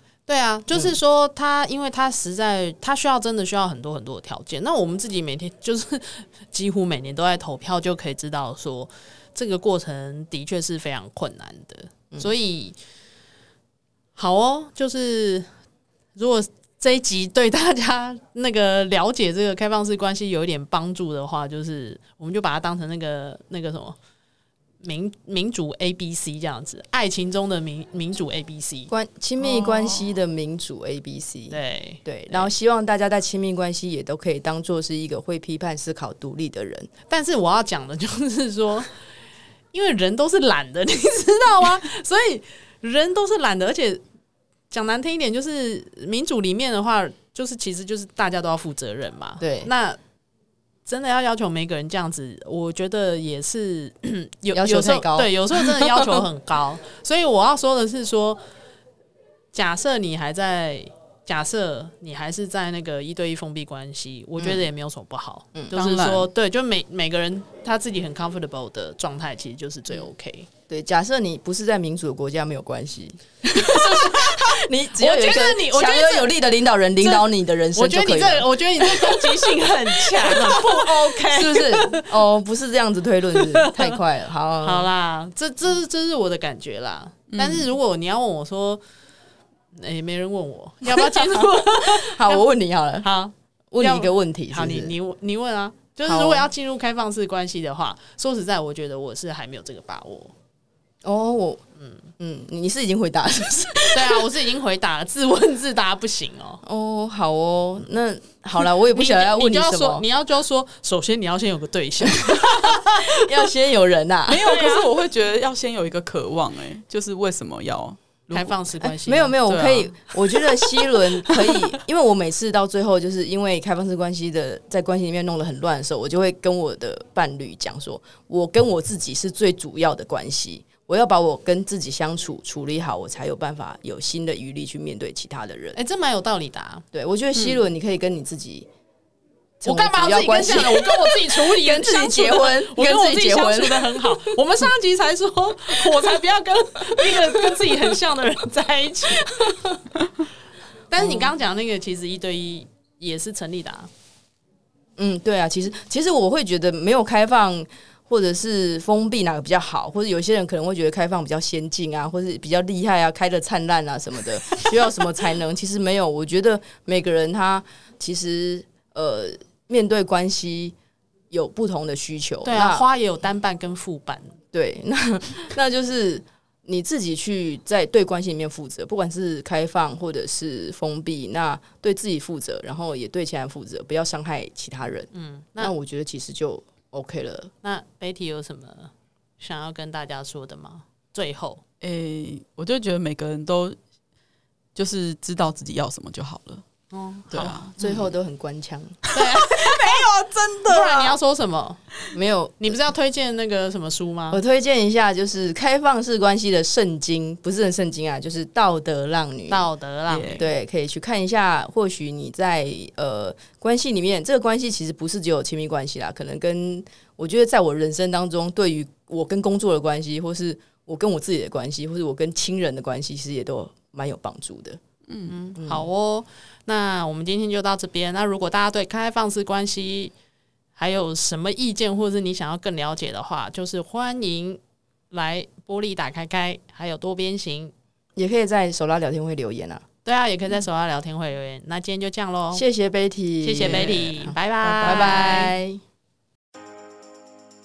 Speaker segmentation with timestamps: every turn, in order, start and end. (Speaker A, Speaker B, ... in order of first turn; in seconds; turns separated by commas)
Speaker A: 0.3-12.8, Speaker B: 0.7-1.0, Speaker A: 14.2-15.5, Speaker A: 16.1-24.0, Speaker A: 24.8-28.9, Speaker B: 28.9-36.9, Speaker C: 29.4-30.1, Speaker A: 31.5-32.5, Speaker A: 37.1-38.9, Speaker A: 39.7-44.0, Speaker A: 44.7-50.0, Speaker B: 49.4-49.7, Speaker A: 50.9-58.4, Speaker B: 54.5-56.2, Speaker A: 59.5-70.5, Speaker B: 64.4-64.7, Speaker C: 65.7-66.3, Speaker B: 70.7-84.9, Speaker A: 73.6-76.4, Speaker A: 77.0-82.1, Speaker A: 83.3-84.0, Speaker A: 84.6-88.8, Speaker C: 87.3-87.7, Speaker A: 89.8-92.5, Speaker B: 91.0-93.1, Speaker A: 93.0-100.3, Speaker B: 93.7-95.0, Speaker B: 96.0-96.5, Speaker B: 101.0-101.6, Speaker B: 102.2-104.3, Speaker A: 103.9-106.6, Speaker B: 106.6-110.0, Speaker A: 108.9-113.0, Speaker B: 112.1-114.5, Speaker C: 114.3-118.6, Speaker A: 114.4-114.9, Speaker A: 118.3-119.4, Speaker B: 119.0-135.8, Speaker C: 119.5-120.0, Speaker A: 135.8-136.8, Speaker B: 136.9-138.7, Speaker C: 137.4-137.7, Speaker B: 139.6-144.4, Speaker A: 139.6-149.6, Speaker A: 150.9-153.9, Speaker B: 151.0-151.3, Speaker B: 155.0-170.8, Speaker B: 171.3-172.9, Speaker A: 172.4-174.3, Speaker B: 174.5-187.5, Speaker A: 185.1-185.7, Speaker A: 187.6-191.6, Speaker C: 191.8-193.8, Speaker C: 194.8-196.6, Speaker A: 196.9-197.6, Speaker C: 197.3-198.1, Speaker B: 197.6-199.0, Speaker A: 199.1-200.0, Speaker C: 199.1-201.2, Speaker A: 200.7-201.8, Speaker B: 202.1-202.8, Speaker A: 202.6-204.4, Speaker B: 204.3-209.7, Speaker A: 209.5-210.5, Speaker C: 210.1-210.4, Speaker B: 210.4-224.8, Speaker C: 225.1-225.3, Speaker A: 225.3-230.1, Speaker B: 225.6-225.9, Speaker A: 230.8-234.6, Speaker A: 235.1-237.7, Speaker B: 238.2-239.8, Speaker A: 240.0-242.7, Speaker B: 242.5-245.8, Speaker A: 243.4-245.6, Speaker C: 243.6-245.5